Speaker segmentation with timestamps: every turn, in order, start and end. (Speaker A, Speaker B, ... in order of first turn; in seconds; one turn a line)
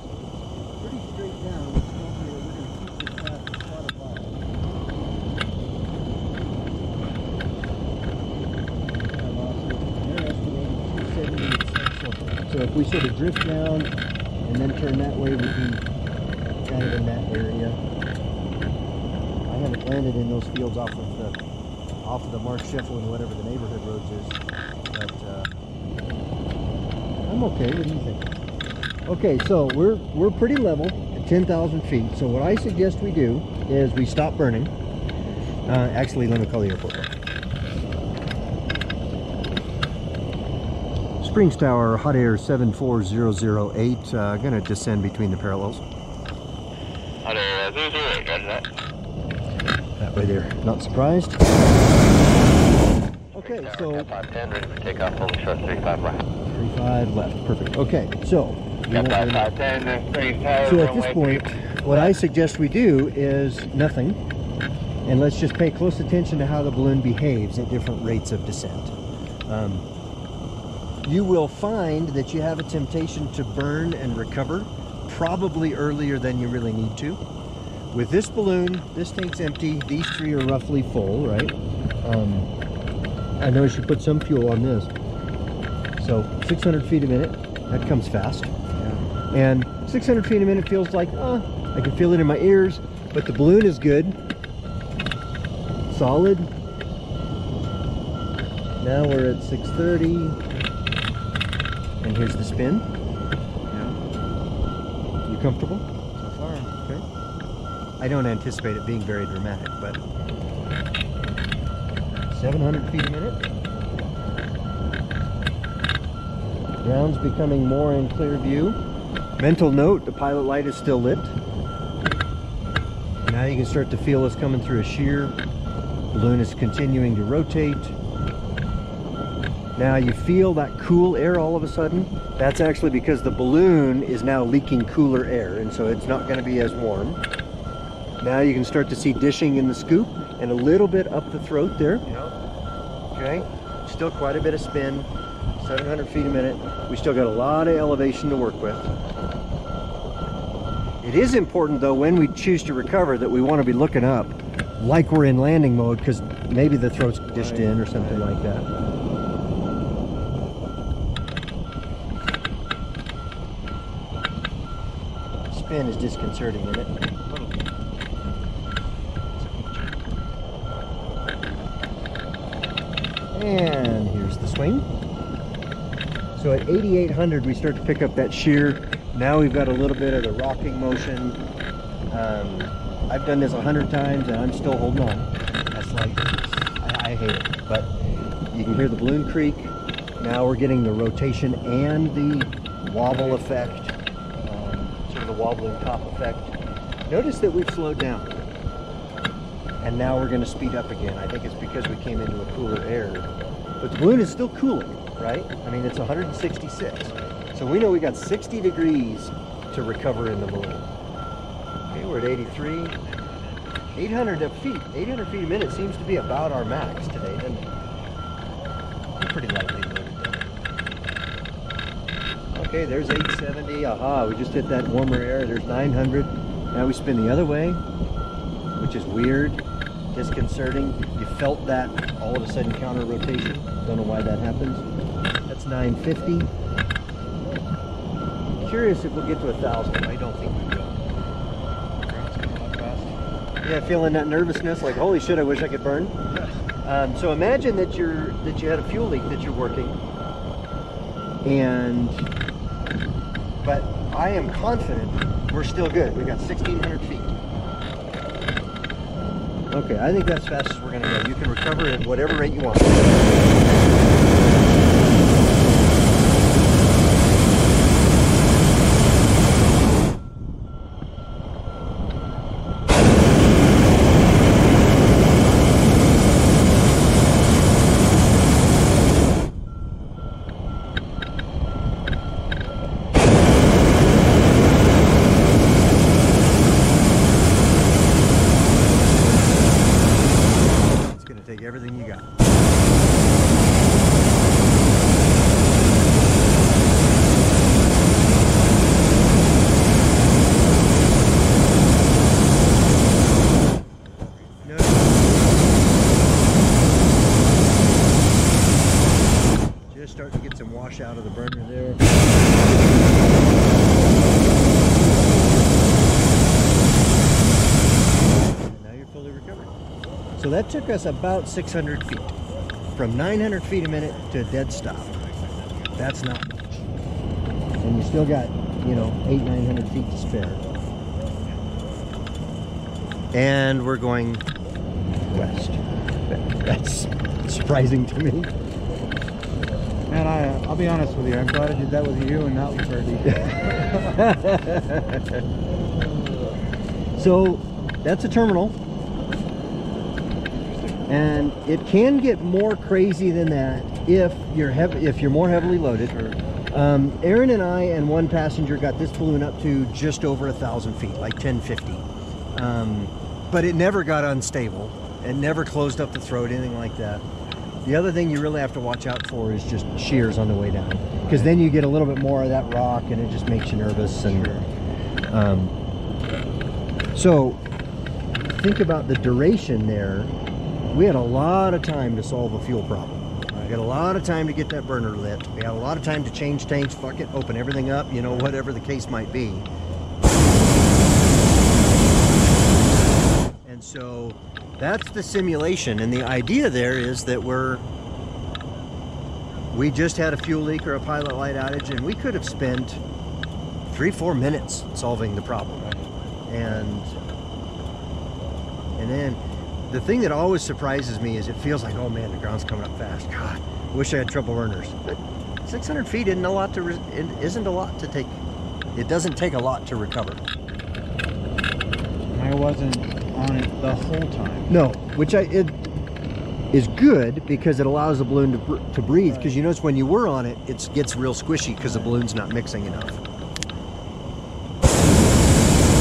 Speaker A: 0.8-4.4
Speaker A: 9.0-13.9
Speaker A: 14.4-15.8
Speaker A: 16.5-17.8
Speaker A: 19.5-21.4
Speaker A: 22.0-24.4
Speaker A: 24.9-25.5
Speaker A: 27.2-28.3
Speaker A: 29.1-34.7
Speaker A: 35.7-37.1
Speaker A: 41.2-45.8
Speaker B: 47.2-48.7
Speaker A: 50.0-51.4
Speaker B: 53.3-56.3
Speaker A: 53.3-54.1
Speaker A: 56.4-59.5
Speaker B: 58.9-62.2
Speaker A: 60.6-64.2
Speaker A: 65.0-69.0
Speaker A: 69.5-69.9
Speaker A: 71.0-77.2
Speaker A: 77.9-82.5
Speaker A: 83.4-84.9
Speaker A: 86.0-88.5
Speaker C: 88.8-89.0
Speaker A: 89.3-94.2
Speaker A: 95.9-96.5
Speaker A: 98.8-100.4
Speaker A: 102.0-102.9
Speaker C: 103.7-104.0
Speaker A: 105.3-105.8
Speaker C: 106.2-106.7
Speaker A: 108.0-110.0
Speaker A: 112.3-113.4
Speaker A: 116.8-118.8
Speaker A: 119.4-121.4
Speaker A: 123.2-125.4
Speaker A: 126.1-128.0
Speaker A: 129.8-137.2
Speaker A: 138.2-142.1
Speaker C: 142.1-142.3
Speaker A: 143.1-145.1
Speaker A: 145.6-148.9
Speaker A: 151.0-158.7
Speaker C: 157.3-158.4
Speaker A: 165.5-167.3
Speaker C: 167.3-167.6
Speaker A: 169.4-170.0
Speaker A: 173.3-174.9
Speaker A: 176.4-181.4
Speaker A: 182.1-187.9
Speaker A: 188.5-196.6
Speaker C: 193.1-193.5
Speaker A: 197.1-198.4
Speaker A: 199.8-210.9
Speaker A: 211.9-213.0
Speaker A: 213.9-217.7
Speaker A: 219.2-220.5
Speaker A: 222.5-227.8
Speaker A: 228.8-234.9
Speaker A: 235.5-236.5
Speaker A: 238.6-241.4
Speaker C: 242.0-243.2
Speaker A: 243.6-246.2
Speaker A: 246.8-250.0
Speaker A: 251.4-252.3
Speaker A: 253.6-257.4
Speaker A: 259.7-263.6
Speaker A: 290.8-292.3
Speaker A: 304.6-305.2
Speaker A: 309.9-313.7
Speaker A: 315.2-315.9
Speaker A: 318.2-319.8
Speaker A: 320.4-322.3
Speaker A: 323.0-325.2
Speaker A: 325.9-326.6
Speaker A: 327.8-330.6
Speaker A: 333.3-334.5
Speaker A: 335.2-338.5
Speaker C: 340.1-344.1
Speaker A: 343.3-345.4
Speaker A: 347.2-348.8
Speaker C: 350.5-351.1
Speaker A: 351.1-356.2
Speaker A: 356.7-367.2
Speaker A: 367.8-374.6
Speaker C: 371.2-371.5
Speaker C: 374.2-374.8
Speaker A: 375.3-375.8
Speaker A: 377.1-377.6
Speaker A: 378.4-380.3
Speaker A: 380.9-389.7
Speaker C: 383.5-383.8
Speaker C: 388.3-388.6
Speaker A: 393.6-397.9
Speaker A: 399.7-403.0
Speaker A: 403.9-405.9
Speaker C: 405.8-406.1
Speaker A: 406.5-407.1
Speaker A: 408.9-415.1
Speaker A: 415.6-418.4
Speaker A: 418.9-420.4
Speaker C: 422.3-424.8
Speaker A: 424.7-425.8
Speaker A: 426.7-433.2
Speaker C: 429.2-429.6
Speaker C: 431.8-432.3
Speaker C: 432.9-433.1